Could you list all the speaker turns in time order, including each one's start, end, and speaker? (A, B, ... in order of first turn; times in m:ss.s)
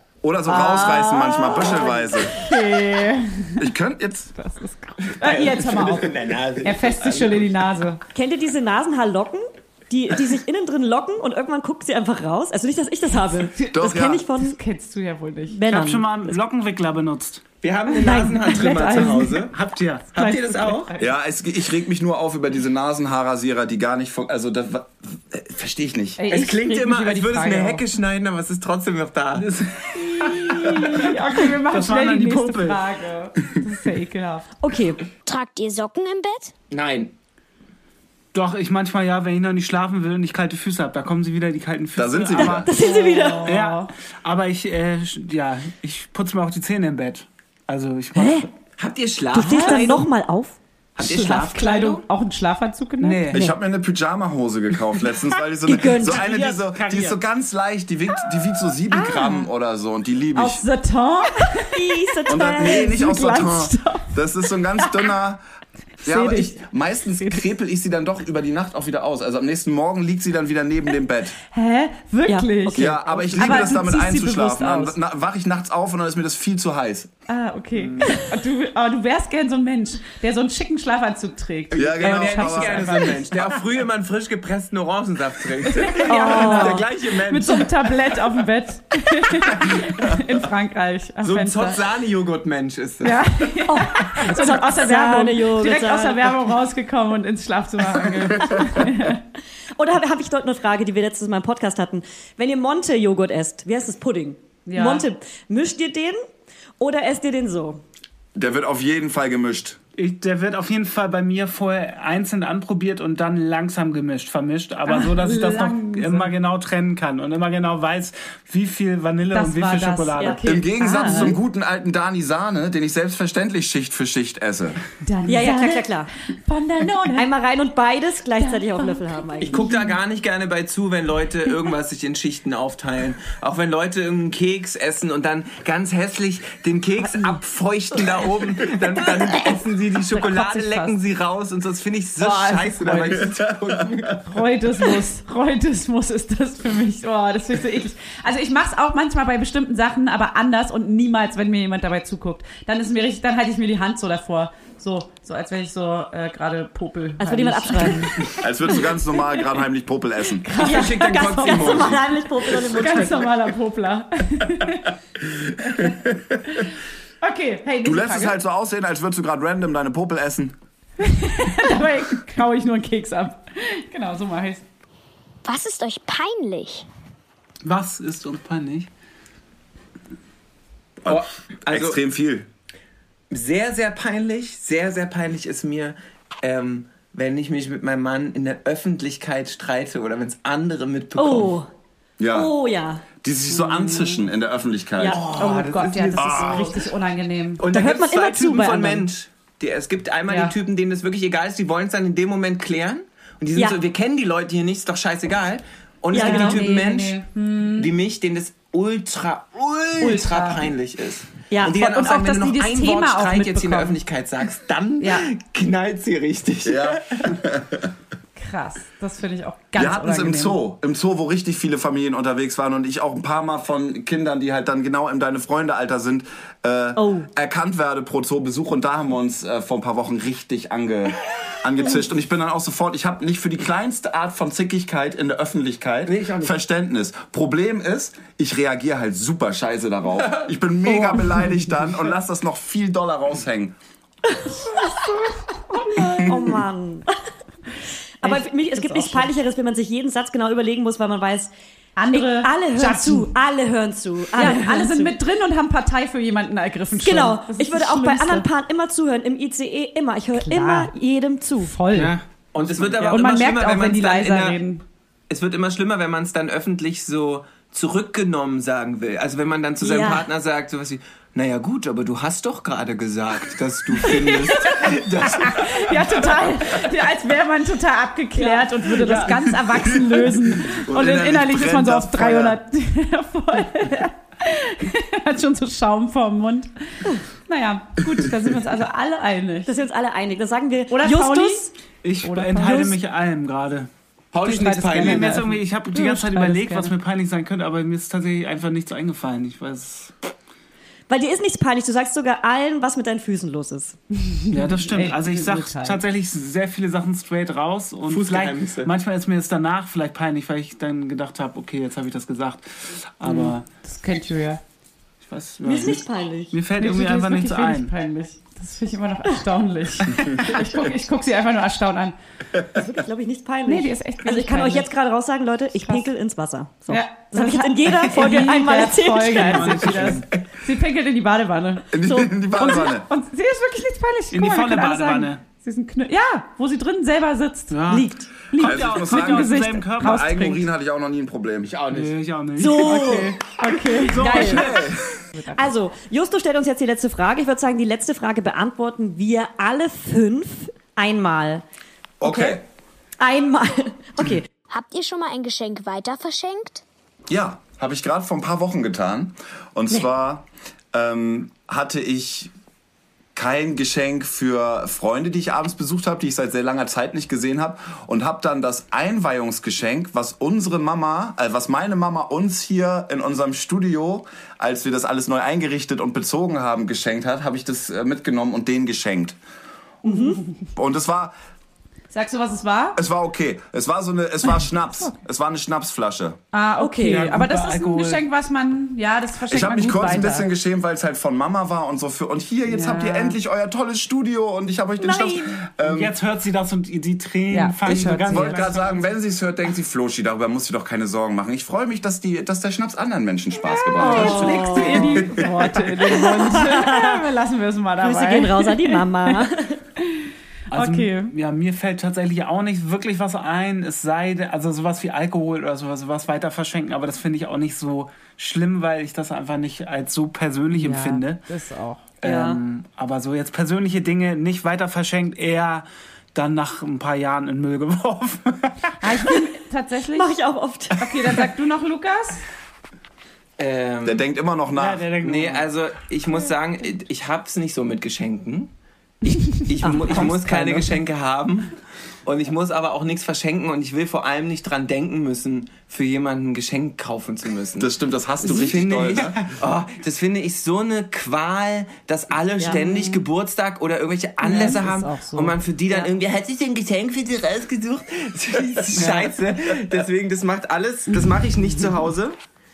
0:00.2-0:02.3 A
0:00.5-0:02.4 B
0:00.5-0:03.6 C
0:03.6-0:04.3 A
0:04.4-0:08.0 C
0:05.1-0:07.4 D
0:08.1-0:14.6 B
0:13.5-0:15.6 C
0:13.7-0:14.2 A
0:15.5-0:16.4 B
0:15.6-0:17.4 E
0:17.6-0:19.6 D
0:18.0-0:19.4 C
0:18.0-0:18.3 B
0:19.4-0:20.1 E
0:20.1-0:20.9 D
0:20.2-0:21.1 C
0:21.0-0:26.2 A
0:26.2-0:27.8 C
0:26.3-0:29.5 D
0:29.4-0:32.8 E
0:30.0-0:34.5 C
0:34.6-0:35.0 B
0:35.2-0:36.5 F
0:36.7-0:37.1 D
0:38.3-0:42.7 E
0:42.0-0:42.7 A
0:42.3-0:43.5 B
0:42.8-0:43.9 C
0:43.4-0:48.5 E
0:48.2-0:48.5 B
0:48.8-0:50.1 D
0:49.3-0:50.6 B
0:49.4-0:49.7 C
0:51.0-0:52.0 D
0:51.0-0:53.4 C
0:53.0-0:53.5 E
0:53.3-1:00.6 A
0:55.6-0:56.3 B
0:56.1-0:57.2 E
0:58.9-0:59.4 C
1:00.3-1:04.1 C
1:01.7-1:03.2 B
1:02.3-1:05.4 A
1:06.0-1:11.3 A
1:06.0-1:06.6 C
1:11.5-1:15.0 C
1:12.2-1:13.8 B
1:12.7-1:17.1 A
1:17.3-1:23.2 C
1:17.8-1:18.2 E
1:21.7-1:23.0 A
1:21.7-1:27.9 D
1:25.6-1:31.8 C
1:26.0-1:26.9 B
1:31.2-1:33.3 D
1:33.0-1:39.2 C
1:33.7-1:36.4 B
1:39.7-1:46.2 B
1:44.6-1:45.0 C
1:46.8-1:47.8 B
1:48.3-1:49.8 A
1:50.0-2:00.4 E
1:54.9-1:56.3 C
1:59.3-2:01.4 C
2:00.2-2:01.3 B
2:00.4-2:04.8 A
2:05.0-2:07.3 C
2:05.2-2:06.1 B
2:07.1-2:09.6 B
2:08.4-2:10.0 C
2:09.4-2:24.2 D
2:17.0-2:17.4 C
2:20.1-2:20.9 C
2:22.2-2:23.3 C
2:24.2-2:38.4 C
2:37.2-2:38.8 B
2:38.3-2:40.4 A
2:40.4-2:44.9 C
2:40.5-2:43.3 B
2:40.6-2:42.1 D
2:45.2-2:46.7 A
2:47.2-2:48.4 C
2:47.8-2:50.5 A
2:51.0-2:54.6 C
2:55.4-2:56.8 F
2:57.6-2:58.9 E
3:01.0-3:02.5 A
3:01.0-3:02.0 D
3:03.3-3:11.5 D
3:11.2-3:11.7 B
3:12.2-3:12.5 A
3:12.3-3:13.0 B
3:13.2-3:15.3 A
3:13.5-3:14.2 C
3:15.1-3:16.4 D
3:15.3-3:17.6 C
3:15.3-3:16.6 E
3:16.2-3:16.7 A
3:17.6-3:27.2 D
3:17.7-3:19.1 B
3:20.3-3:20.5 C
3:26.1-3:26.6 B
3:26.1-3:27.9 C
3:27.8-3:37.4 D
3:30.0-3:30.6 C
3:31.5-3:31.8 B
3:31.8-3:34.0 C
3:35.0-3:35.3 C
3:36.6-3:37.9 A
3:38.4-3:40.6 C
3:39.8-4:03.7 A
3:47.0-3:47.3 B
3:56.0-3:56.6 D
4:00.9-4:01.2 B
4:05.7-4:06.3 C
4:05.7-4:07.2 B
4:06.1-4:06.3 A
4:08.2-4:11.5 B
4:08.2-4:09.3 C
4:12.0-4:13.3 C
4:12.1-4:15.2 B
4:14.3-4:18.4 C
4:17.0-4:21.8 B
4:20.3-4:20.9 C
4:21.6-4:22.1 C
4:21.9-4:23.1 E
4:22.5-4:24.6 D
4:23.0-4:24.8 C
4:25.3-4:36.3 D
4:29.8-4:30.3 B
4:34.0-4:49.7 C
4:38.4-4:38.7 B
4:39.2-4:42.6 A
4:49.6-4:51.7 B
4:50.9-4:51.7 C
4:52.0-4:53.9 E
4:52.2-4:52.8 C
4:52.6-4:53.0 B
4:54.3-4:55.5 D
4:54.4-4:56.9 C
4:54.9-5:00.1 E
5:01.1-5:04.0 B
5:04.2-5:06.0 C
5:04.5-5:13.6 E
5:08.0-5:08.9 D
5:13.2-5:14.6 C
5:15.2-5:16.0 E
5:15.6-5:16.6 B
5:16.5-5:17.9 E
5:16.8-5:22.1 C
5:22.7-5:30.1 B
5:23.7-5:24.9 C
5:26.9-5:40.7 C
5:29.3-5:30.2 E
5:31.9-5:33.0 A
5:32.0-5:32.6 B
5:34.3-5:35.4 E
5:37.7-5:40.3 E
5:37.9-5:38.3 B
5:38.6-5:41.9 A
5:41.6-5:42.1 D
5:41.8-5:45.0 E
5:42.6-5:44.9 B
5:42.9-5:44.8 C
5:45.3-5:45.6 C
5:45.5-5:51.6 B
5:52.2-5:52.6 A
5:52.2-5:52.6 B
5:53.2-5:54.5 B
5:54.7-5:56.8 F
5:57.3-6:02.5 A
6:03.3-6:19.4 A
6:20.0-6:20.4 B
6:20.8-6:21.3 A
6:22.1-6:23.0 C
6:23.0-6:26.4 A
6:26.5-6:30.5 C
6:26.8-6:27.4 B
6:27.0-6:28.2 E
6:29.5-6:36.2 A
6:32.7-6:33.4 C
6:35.0-6:35.6 B
6:35.8-6:39.0 E
6:37.5-6:38.7 C
6:37.9-6:45.8 A
6:43.6-6:49.5 C
6:44.0-6:47.3 B
6:48.0-6:49.8 B
6:50.0-6:51.3 C
6:50.7-7:01.4 E
7:00.7-7:02.0 C
7:02.2-7:09.4 E
7:02.2-7:02.6 B
7:09.0-7:10.4 C
7:10.1-7:11.3 B
7:11.0-7:12.4 C
7:13.6-7:14.2 D
7:14.0-7:15.1 A
7:14.7-7:15.7 E
7:15.2-7:18.7 D
7:19.2-7:21.7 D
7:19.3-7:19.6 C
7:19.8-7:20.4 B
7:20.1-7:20.7 E
7:22.2-7:27.9 D
7:27.8-7:29.4 A
7:28.4-7:42.4 D
7:28.4-7:29.6 E
7:32.8-7:33.1 C
7:34.4-7:35.6 C
7:38.9-7:39.4 E